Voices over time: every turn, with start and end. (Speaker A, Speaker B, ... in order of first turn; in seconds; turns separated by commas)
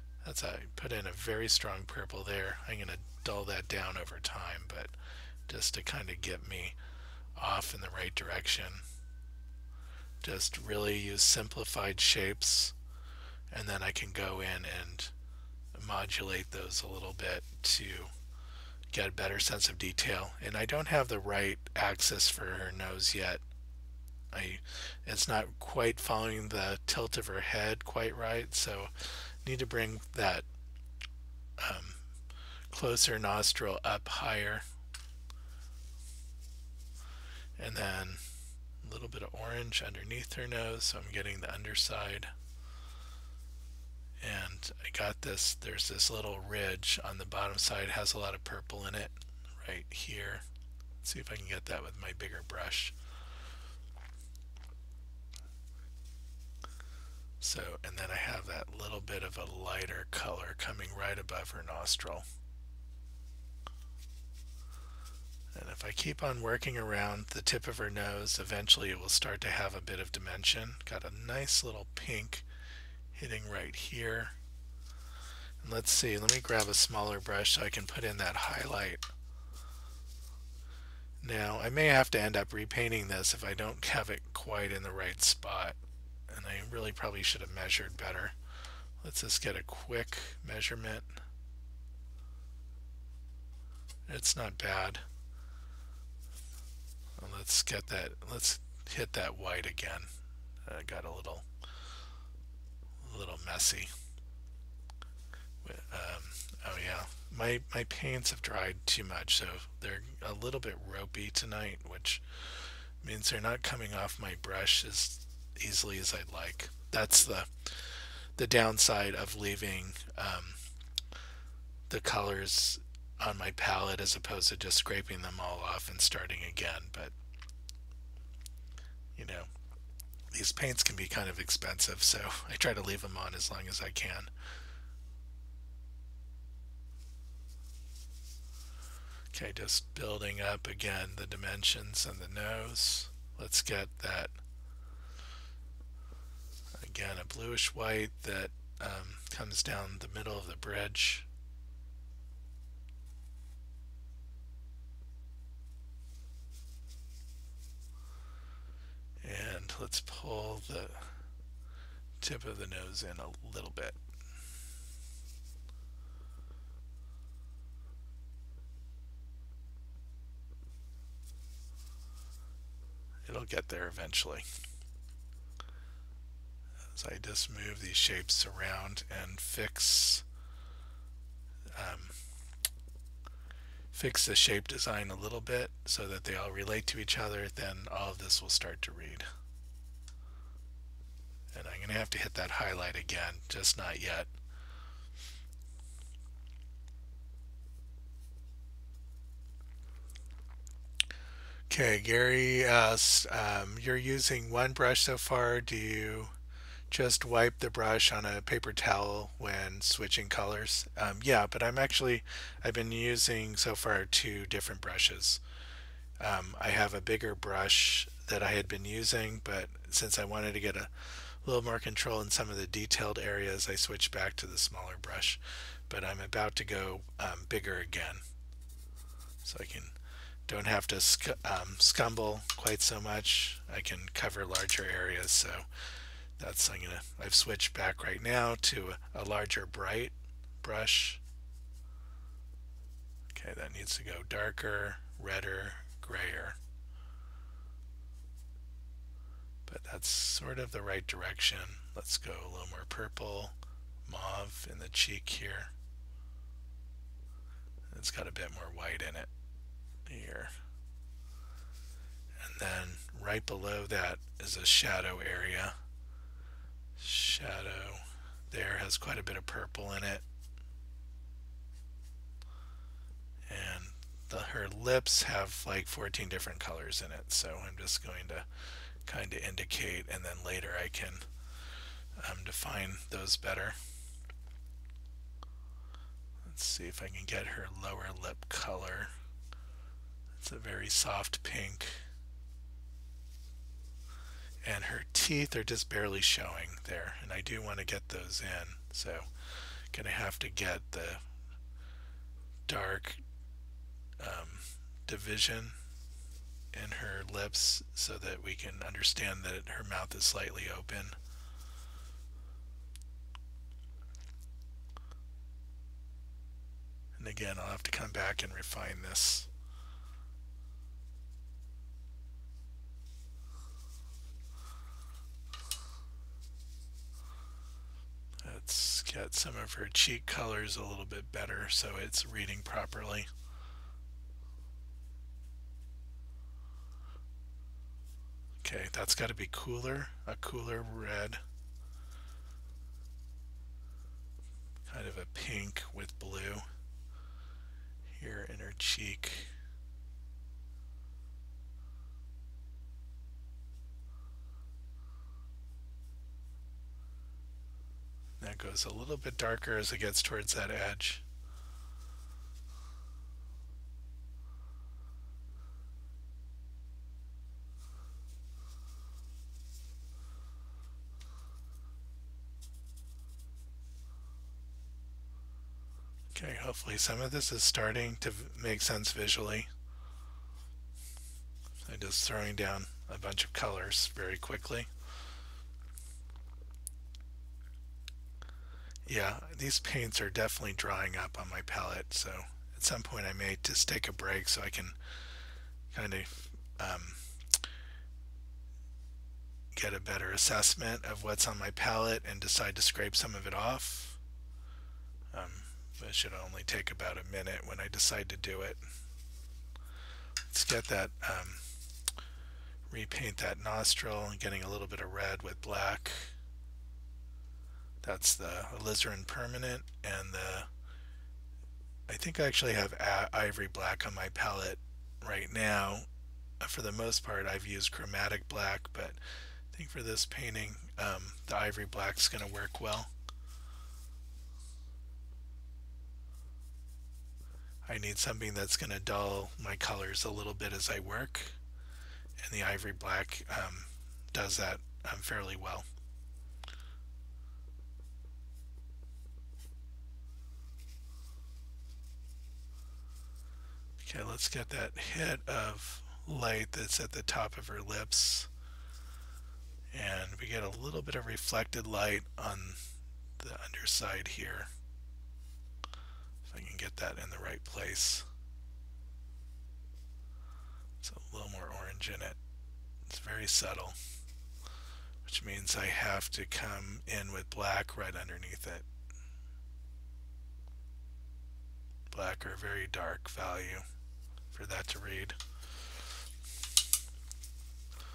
Speaker A: 0.2-4.9, Speaker A: 5.5-6.8, Speaker A: 7.3-8.8, Speaker A: 10.2-12.7, Speaker A: 13.5-15.1, Speaker A: 15.7-18.1, Speaker A: 18.9-23.4, Speaker A: 24.3-30.4, Speaker A: 31.6-32.0, Speaker A: 32.7-34.6, Speaker A: 37.6-38.2, Speaker A: 38.8-42.3, Speaker A: 44.2-50.4, Speaker A: 51.0-52.9, Speaker A: 57.4-62.3, Speaker A: 65.5-72.5, Speaker A: 73.1-74.3, Speaker A: 75.6-79.1, Speaker A: 81.2-85.8, Speaker A: 86.3-88.3, Speaker A: 89.0-91.1, Speaker A: 94.1-95.0, Speaker A: 97.2-100.1, Speaker A: 100.7-101.5, Speaker A: 103.0-103.9, Speaker A: 105.6-120.6, Speaker A: 121.9-127.1, Speaker A: 129.2-129.5, Speaker A: 130.3-134.3, Speaker A: 139.3-144.3, Speaker A: 146.7-151.3, Speaker A: 159.2-161.2, Speaker A: 162.2-164.0, Speaker A: 173.2-174.4, Speaker A: 176.9-180.2, Speaker A: 181.7-182.2, Speaker A: 183.9-189.2, Speaker A: 191.5-194.3, Speaker A: 201.7-206.3, Speaker A: 206.9-215.4, Speaker A: 216.2-228.2, Speaker A: 229.4-229.9, Speaker A: 230.5-235.7, Speaker A: 236.4-241.2, Speaker A: 243.3-246.6, Speaker A: 249.7-255.7, Speaker A: 257.9-259.3, Speaker A: 260.1-260.5, Speaker A: 262.4-265.8, Speaker A: 267.0-270.2, Speaker A: 273.5-278.5, Speaker A: 279.1-281.3, Speaker A: 282.2-283.8, Speaker A: 286.4-289.1, Speaker A: 290.4-292.0, Speaker A: 294.6-299.3, Speaker A: 299.9-301.2, Speaker A: 302.7-303.2, Speaker A: 304.2-305.8, Speaker A: 306.7-311.2, Speaker A: 317.2-319.5, Speaker A: 328.4-333.3, Speaker A: 338.6-341.4, Speaker A: 344.9-346.6, Speaker A: 348.1-349.5, Speaker A: 358.4-361.2, Speaker A: 376.3-379.7, Speaker A: 381.8-384.9, Speaker A: 389.1-395.0, Speaker A: 395.9-397.2, Speaker A: 399.7-404.2, Speaker A: 405.3-408.8, Speaker A: 410.5-411.6, Speaker A: 412.9-416.3, Speaker A: 418.0-420.7, Speaker A: 422.1-426.1, Speaker A: 426.6-429.2, Speaker A: 429.7-433.1, Speaker A: 437.8-441.6, Speaker A: 442.4-445.9, Speaker A: 454.0-458.5, Speaker A: 459.9-462.8, Speaker A: 463.4-464.7, Speaker A: 466.4-468.3, Speaker A: 471.0-472.4, Speaker A: 473.1-474.0, Speaker A: 475.2-478.8, Speaker A: 482.1-483.8, Speaker A: 484.5-485.4